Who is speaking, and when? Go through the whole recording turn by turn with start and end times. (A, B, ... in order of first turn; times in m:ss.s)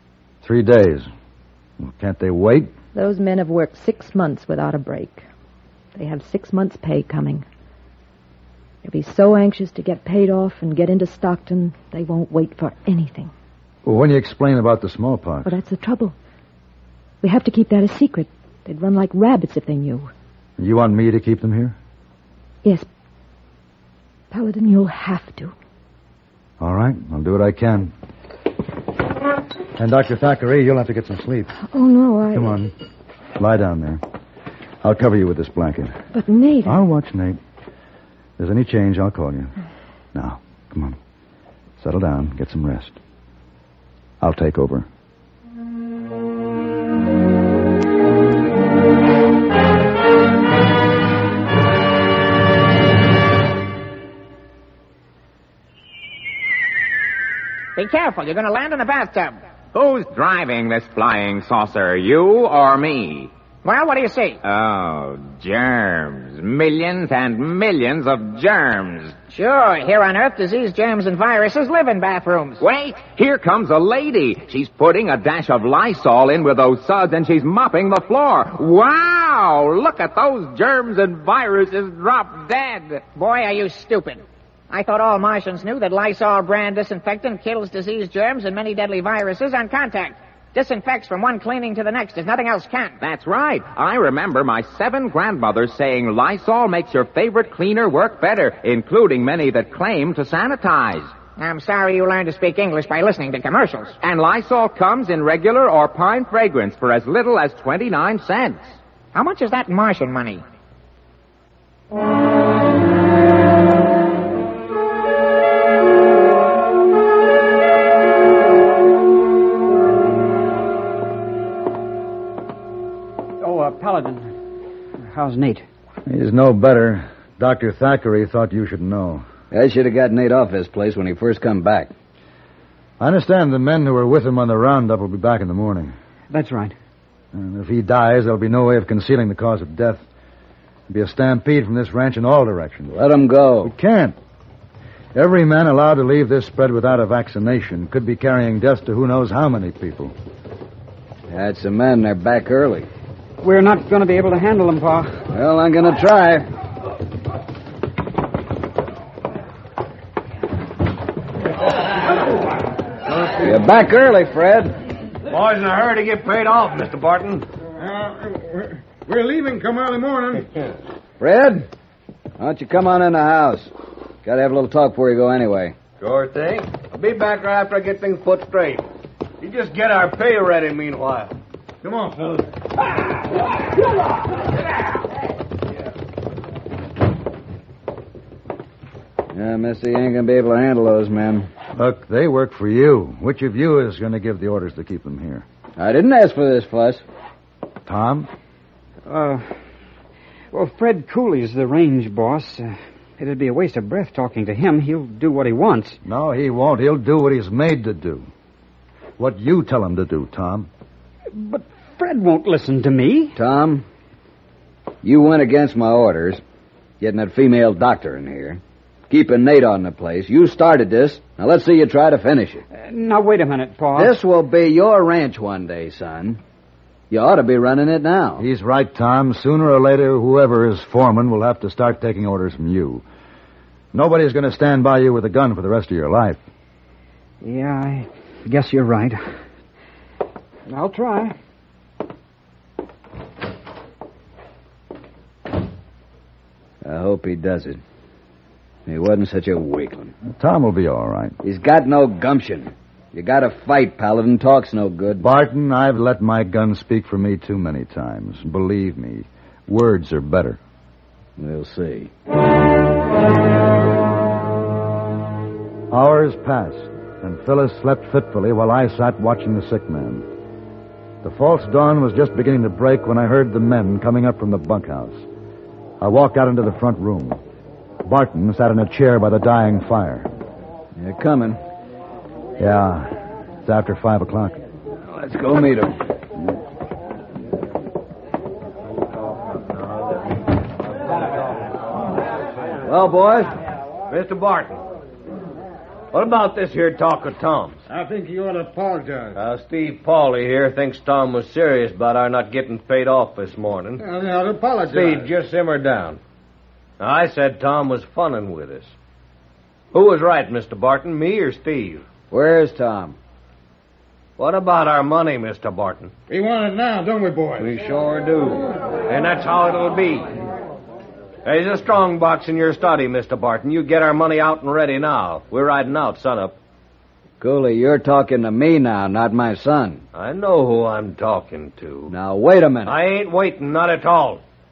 0:00.4-0:01.1 A
0:01.8-0:02.7 A
0:02.9-0:05.3 B
0:06.0-0:07.4 B
0:08.8-0:13.3 B
0:13.8-0:15.5 A
0:15.4-0:16.2 B
0:17.2-0:20.1 B
0:20.6-0:21.8 A
0:24.3-0:25.6 B
0:26.6-0:27.9 A
0:29.8-0:31.5 A
0:31.6-0:32.6 B
0:32.3-0:32.7 A
0:33.4-0:34.0 A
0:34.8-0:36.0 A
0:36.1-0:36.8 B
0:36.7-0:37.4 A
0:38.4-0:39.5 A
0:40.1-0:41.0 A
0:41.8-0:43.0 A
0:44.2-0:44.9 A
0:57.8-0:59.4 C
0:59.7-1:03.3 D
1:03.6-1:04.4 C
1:04.4-1:09.2 D
1:09.3-1:12.6 C
1:12.6-1:23.1 D
1:23.1-1:33.0 C
1:33.0-1:41.1 D
1:41.4-1:44.0 C
1:44.0-1:48.8 D
1:49.1-1:50.4 C
2:03.4-2:04.3 E
2:05.0-2:05.7 E
2:06.1-2:09.3 A
2:09.5-2:11.9 F
2:13.0-2:16.0 A
2:16.3-2:16.8 E
2:17.3-2:20.0 A
2:20.9-2:23.0 A
2:22.9-2:23.7 F
2:23.6-2:24.2 A
2:25.1-2:30.2 A
2:31.3-2:32.9 F
2:33.4-2:35.2 E
2:35.3-2:36.5 F
2:43.4-2:44.8 F
2:45.3-2:47.5 G
2:47.8-2:50.5 H
2:51.2-2:51.7 F
2:52.4-2:53.7 F
2:54.2-2:55.8 F
2:56.0-2:58.9 G
2:59.4-3:02.4 G
3:09.3-3:11.5 F
3:11.8-3:15.4 A
3:15.8-3:17.0 F
3:17.9-3:18.3 A
3:19.1-3:19.5 E
3:20.5-3:26.0 E
3:26.0-3:28.3 A
3:29.2-3:30.7 A
3:31.3-3:33.4 E
3:33.4-3:33.9 F
3:35.0-3:36.4 F
3:37.0-3:42.6 F
3:42.7-3:44.2 E
3:44.0-3:46.4 F
3:47.1-3:48.4 F
3:48.4-3:53.0 A
3:53.9-3:56.4 A
3:57.4-3:59.2 E
4:00.7-4:01.4 E
4:06.8-4:07.8 F
4:08.9-4:10.2 F
4:10.3-4:11.4 A
4:11.4-4:15.3 F
4:15.2-4:20.6 A
4:21.4-4:22.1 F
4:25.9-4:30.3 A
4:31.2-4:35.2 A
4:36.0-4:37.4 A
4:38.0-4:40.3 A
4:41.0-4:41.6 F
4:42.6-4:44.6 A
4:45.1-4:46.0 F
4:52.8-4:53.5 F
4:54.1-4:54.8 G
4:56.1-4:57.8 G
4:57.9-4:59.4 H
4:59.4-5:04.0 G
5:04.0-5:05.3 H
5:04.9-5:06.2 G
5:07.0-5:09.0 G
5:09.9-5:12.1 G
5:12.3-5:13.2 F
5:14.4-5:16.1 G
5:16.3-5:17.8 H
5:17.6-5:20.3 G
5:21.4-5:26.6 G
5:27.4-5:30.0 F
5:30.1-5:32.1 G
5:32.1-5:33.0 F
5:32.8-5:34.4 G